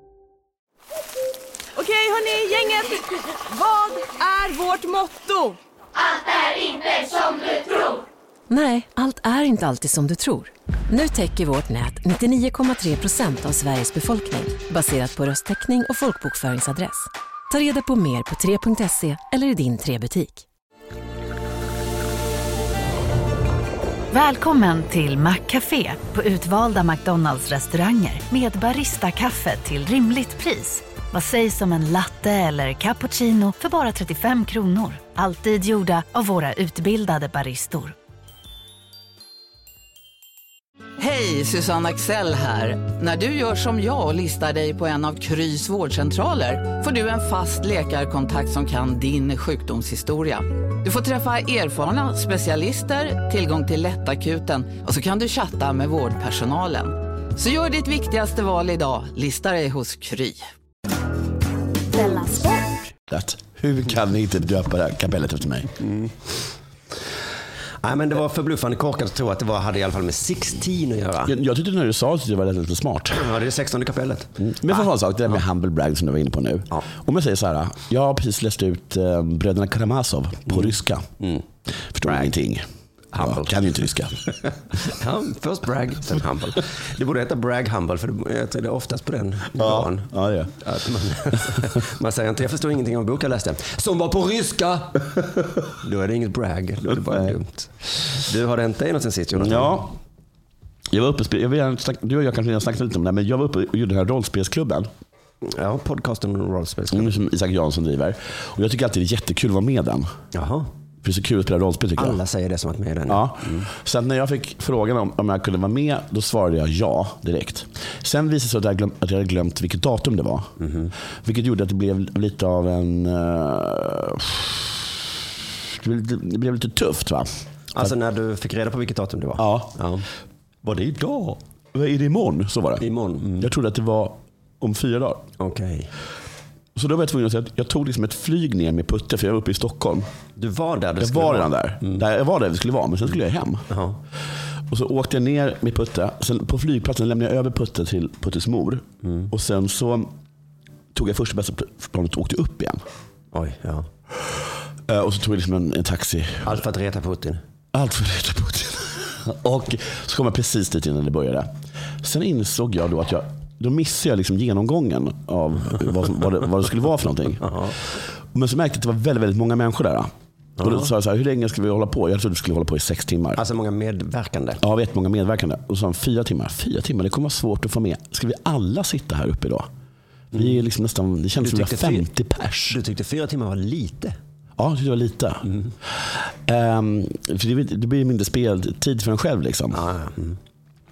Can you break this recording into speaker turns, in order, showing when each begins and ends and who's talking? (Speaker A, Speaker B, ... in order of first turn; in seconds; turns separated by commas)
Speaker A: 2.1-2.9, Speaker A: 3.8-5.2, Speaker B: 8.5-20.4, Speaker C: 24.1-37.9, Speaker D: 41.0-60.4, Speaker C: 62.0-62.6, Speaker E: 63.1-65.7, Speaker F: 67.8-71.3, Speaker E: 71.2-73.3, Speaker F: 73.1-74.8, Speaker E: 74.4-81.0, Speaker F: 80.5-81.4, Speaker E: 81.9-82.6, Speaker F: 82.0-82.3, Speaker F: 83.1-83.5, Speaker E: 83.2-84.2, Speaker F: 84.8-95.0, Speaker E: 89.5-90.5, Speaker F: 95.8-99.7, Speaker E: 99.3-99.9, Speaker E: 100.9-104.9, Speaker F: 105.4-107.2, Speaker E: 106.9-110.1, Speaker F: 110.3-110.7, Speaker E: 111.0-112.2, Speaker F: 112.0-113.7, Speaker E: 113.1-120.5, Speaker F: 120.6-120.9, Speaker E: 121.2-124.8, Speaker E: 125.7-127.3, Speaker F: 127.7-130.1, Speaker E: 129.4-129.7, Speaker F: 130.6-131.4, Speaker E: 131.7-132.8, Speaker F: 132.8-133.5, Speaker E: 133.4-135.2, Speaker F: 135.4-135.9, Speaker E: 136.7-140.0, Speaker F: 140.3-142.0, Speaker E: 141.0-143.7, Speaker F: 143.7-144.0, Speaker E: 144.7-150.1, Speaker F: 149.0-149.3, Speaker E: 150.9-152.8, Speaker F: 153.3-153.8, Speaker E: 154.9-156.6, Speaker F: 156.4-157.4, Speaker E: 157.7-161.5, Speaker E: 162.0-170.1, Speaker E: 170.6-173.4, Speaker F: 170.6-170.9, Speaker F: 173.3-174.6, Speaker E: 174.6-179.7, Speaker E: 180.3-182.8, Speaker F: 181.4-182.1, Speaker F: 182.7-184.1, Speaker E: 184.6-189.8, Speaker F: 189.7-190.4